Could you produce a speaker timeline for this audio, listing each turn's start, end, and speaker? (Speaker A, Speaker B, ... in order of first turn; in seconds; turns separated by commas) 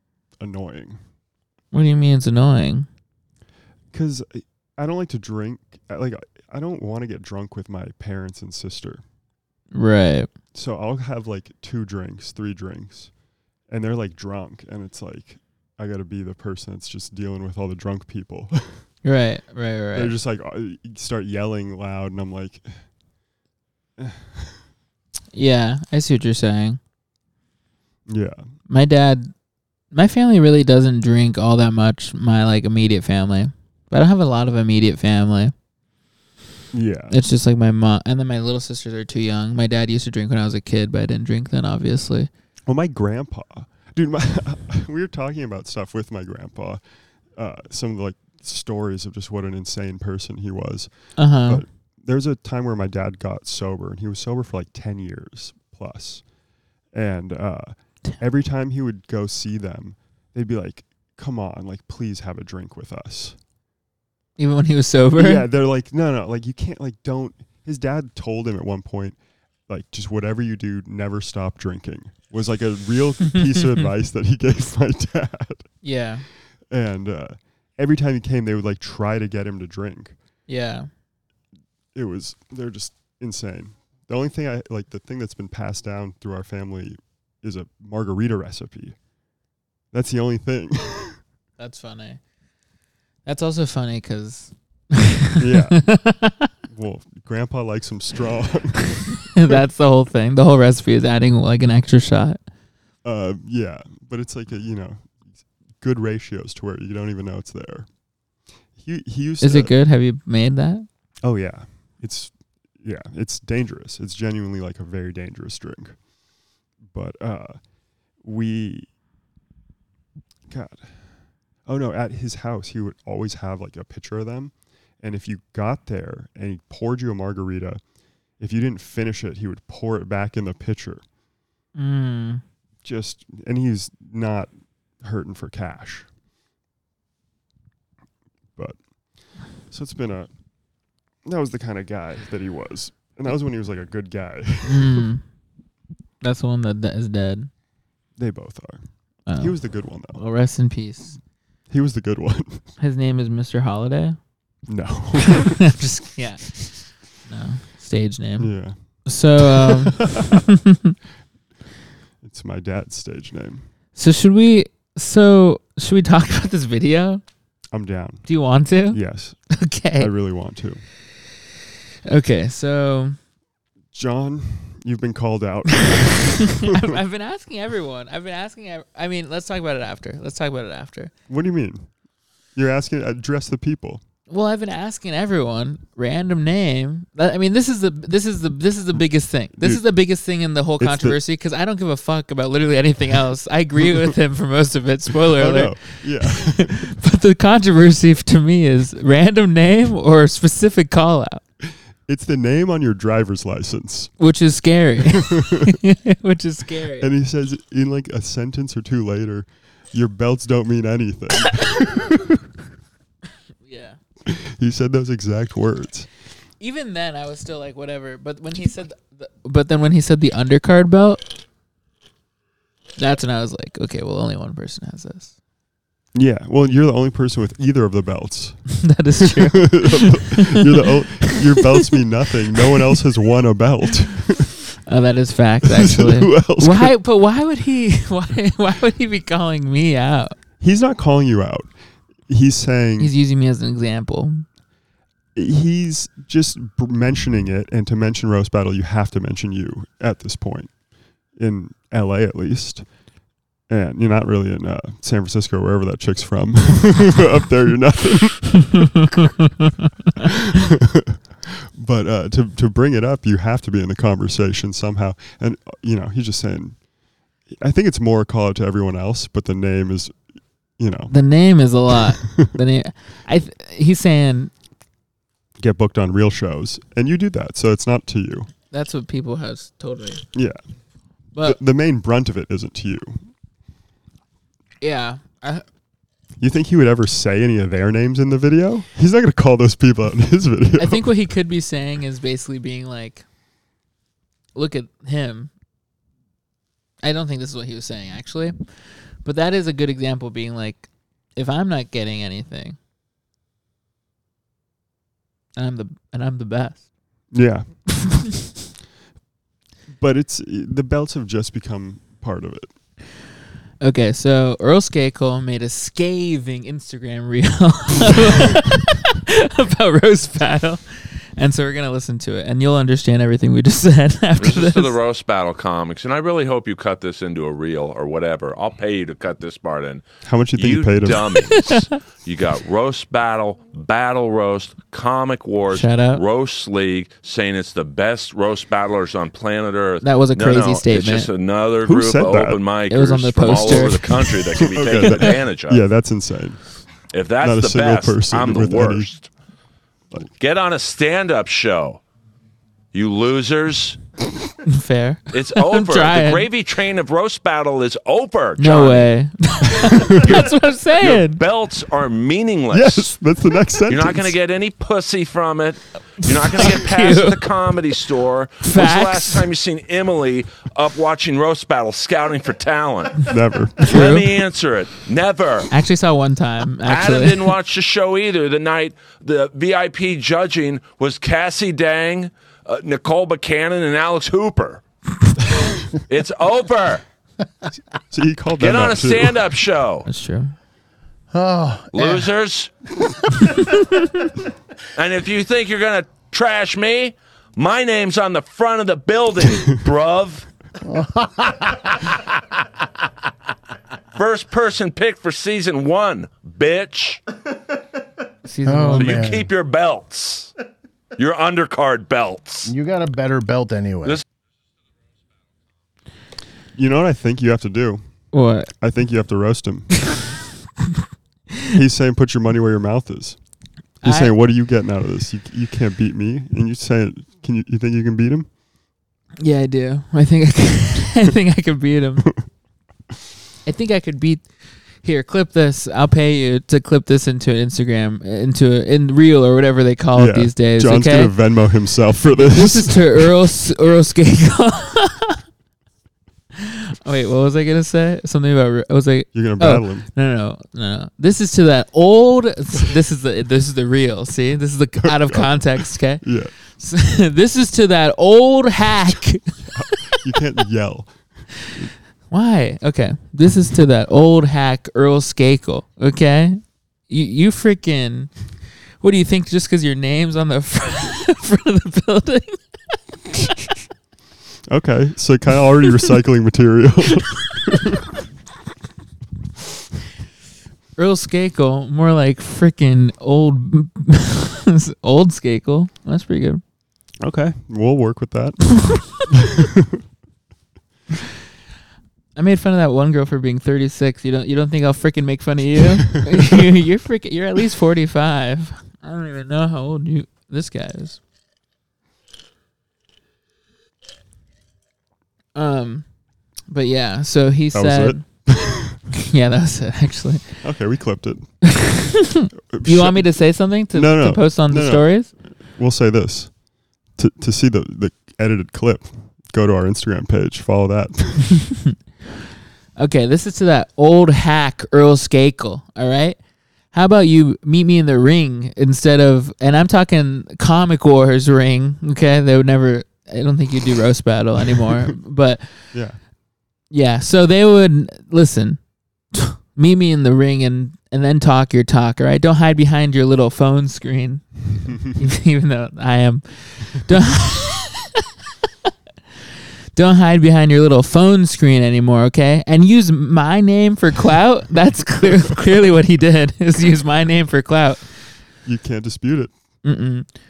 Speaker A: 0.4-1.0, Speaker B: 1.7-2.9, Speaker A: 3.9-9.0, Speaker B: 9.7-10.3, Speaker A: 10.5-13.1, Speaker A: 13.7-18.9, Speaker B: 19.0-20.1, Speaker A: 19.9-22.9, Speaker A: 24.0-24.6, Speaker B: 25.3-26.8, Speaker A: 28.1-28.5, Speaker B: 28.7-29.3, Speaker B: 29.9-35.5, Speaker A: 36.7-37.2, Speaker B: 37.1-42.3, Speaker A: 42.7-46.8, Speaker A: 47.4-56.2, Speaker B: 51.2-51.6, Speaker A: 56.9-63.4, Speaker B: 64.4-65.5, Speaker A: 65.2-69.2, Speaker A: 69.7-75.7, Speaker B: 75.8-76.3, Speaker A: 76.7-80.2, Speaker B: 80.5-80.9, Speaker A: 82.0-89.0, Speaker A: 89.9-91.2, Speaker B: 91.6-92.2, Speaker B: 93.2-96.5, Speaker A: 95.4-95.8, Speaker A: 96.7-99.2, Speaker B: 99.2-102.4, Speaker A: 103.0-105.2, Speaker A: 105.8-107.9, Speaker A: 108.8-109.7, Speaker B: 109.4-110.9, Speaker A: 111.2-116.0, Speaker A: 116.9-117.6, Speaker A: 118.2-118.9, Speaker A: 120.5-121.0, Speaker A: 121.7-127.8, Speaker A: 128.4-131.0, Speaker B: 131.8-132.4, Speaker A: 132.8-134.5, Speaker A: 135.0-136.1, Speaker A: 139.7-140.3, Speaker A: 141.2-145.1, Speaker B: 144.7-145.2, Speaker B: 146.2-147.5, Speaker A: 148.2-150.2, Speaker B: 149.3-149.6, Speaker B: 150.2-151.2, Speaker A: 151.7-152.7, Speaker B: 152.8-154.2, Speaker A: 154.7-155.6, Speaker B: 155.4-158.5, Speaker A: 158.4-158.8, Speaker B: 159.1-160.9, Speaker A: 159.4-160.4, Speaker A: 162.2-163.7, Speaker B: 164.0-167.2, Speaker A: 167.7-168.3, Speaker B: 168.3-170.1, Speaker A: 168.9-169.4, Speaker A: 170.0-170.8, Speaker B: 172.1-173.2, Speaker A: 173.9-177.0, Speaker B: 176.1-181.1, Speaker A: 181.3-181.9, Speaker A: 182.6-184.0, Speaker B: 184.3-201.4, Speaker A: 190.8-191.2, Speaker A: 195.4-196.9, Speaker A: 202.1-204.1, Speaker B: 204.2-207.1, Speaker A: 205.1-205.7, Speaker A: 207.0-212.4, Speaker B: 213.6-214.0, Speaker A: 214.3-216.1, Speaker B: 216.6-221.4, Speaker B: 223.0-225.3, Speaker A: 226.2-228.6, Speaker B: 228.8-230.7, Speaker A: 229.2-234.5, Speaker B: 234.8-240.4, Speaker A: 235.7-236.9, Speaker A: 240.6-241.7, Speaker A: 242.3-243.1, Speaker B: 243.0-244.4, Speaker A: 245.3-250.7, Speaker A: 251.4-252.9, Speaker A: 253.7-259.1, Speaker A: 260.2-266.8, Speaker A: 267.6-270.2, Speaker A: 270.8-271.1, Speaker B: 271.1-274.5, Speaker A: 275.6-278.5, Speaker B: 278.7-280.2, Speaker A: 280.3-280.6, Speaker A: 281.4-283.3, Speaker B: 284.8-285.6, Speaker A: 286.4-291.1, Speaker B: 290.8-293.2, Speaker B: 294.6-295.5, Speaker B: 297.0-298.6, Speaker B: 299.2-302.8, Speaker B: 305.6-306.9, Speaker A: 307.3-307.7, Speaker B: 308.0-308.3, Speaker A: 310.0-312.7, Speaker B: 313.8-325.0, Speaker C: 324.4-345.8, Speaker A: 330.2-331.5, Speaker B: 331.5-331.8, Speaker B: 335.7-336.2, Speaker B: 340.0-341.3, Speaker A: 341.8-342.6, Speaker B: 342.9-344.5, Speaker A: 344.6-346.6, Speaker C: 347.1-349.3, Speaker A: 347.4-349.1, Speaker C: 350.4-352.0, Speaker C: 352.9-354.0, Speaker B: 354.6-356.5, Speaker C: 355.3-359.1, Speaker B: 358.6-361.4, Speaker C: 360.1-363.1, Speaker A: 362.7-364.3, Speaker C: 363.9-373.3, Speaker B: 366.2-367.5, Speaker B: 368.6-369.5, Speaker A: 373.3-373.9, Speaker B: 373.8-374.4, Speaker C: 373.8-375.7, Speaker B: 375.7-377.5, Speaker C: 376.9-384.8, Speaker C: 386.1-387.0, Speaker A: 388.1-389.4, Speaker C: 388.6-390.1, Speaker B: 390.1-390.6, Speaker D: 391.3-392.3, Speaker C: 391.9-392.7, Speaker C: 395.0-400.5, Speaker D: 400.9-401.8, Speaker C: 404.2-407.2, Speaker B: 408.4-409.3, Speaker D: 408.6-409.5, Speaker C: 409.0-410.5, Speaker C: 411.2-412.7, Speaker D: 412.7-414.2, Speaker A: 416.8-418.0, Speaker B: 418.3-418.7, Speaker A: 418.8-420.0, Speaker A: 421.7-423.4, Speaker A: 424.0-428.5, Speaker B: 424.0-424.3, Speaker B: 429.4-432.3, Speaker B: 433.6-434.5, Speaker B: 435.0-441.4, Speaker A: 440.2-443.3, Speaker B: 442.3-445.4, Speaker B: 446.6-456.2, Speaker A: 449.3-450.1, Speaker A: 455.0-456.5, Speaker B: 456.8-460.0, Speaker A: 459.6-461.9, Speaker B: 462.3-468.3, Speaker B: 469.0-473.7, Speaker A: 474.7-478.1, Speaker B: 481.0-486.6, Speaker A: 487.2-488.8, Speaker B: 488.8-489.2, Speaker A: 489.3-490.0, Speaker B: 492.4-501.2, Speaker B: 505.6-506.1, Speaker B: 506.7-508.2, Speaker A: 507.7-509.0, Speaker B: 509.1-510.6, Speaker A: 510.6-511.5, Speaker B: 511.6-515.3, Speaker A: 512.7-513.3, Speaker A: 513.9-516.5, Speaker A: 517.2-521.7, Speaker B: 523.0-526.4, Speaker B: 526.9-535.9, Speaker A: 535.9-536.2, Speaker B: 536.9-538.8, Speaker B: 539.3-548.2, Speaker A: 544.9-545.2, Speaker B: 550.0-558.1, Speaker A: 558.6-559.5, Speaker B: 559.8-560.3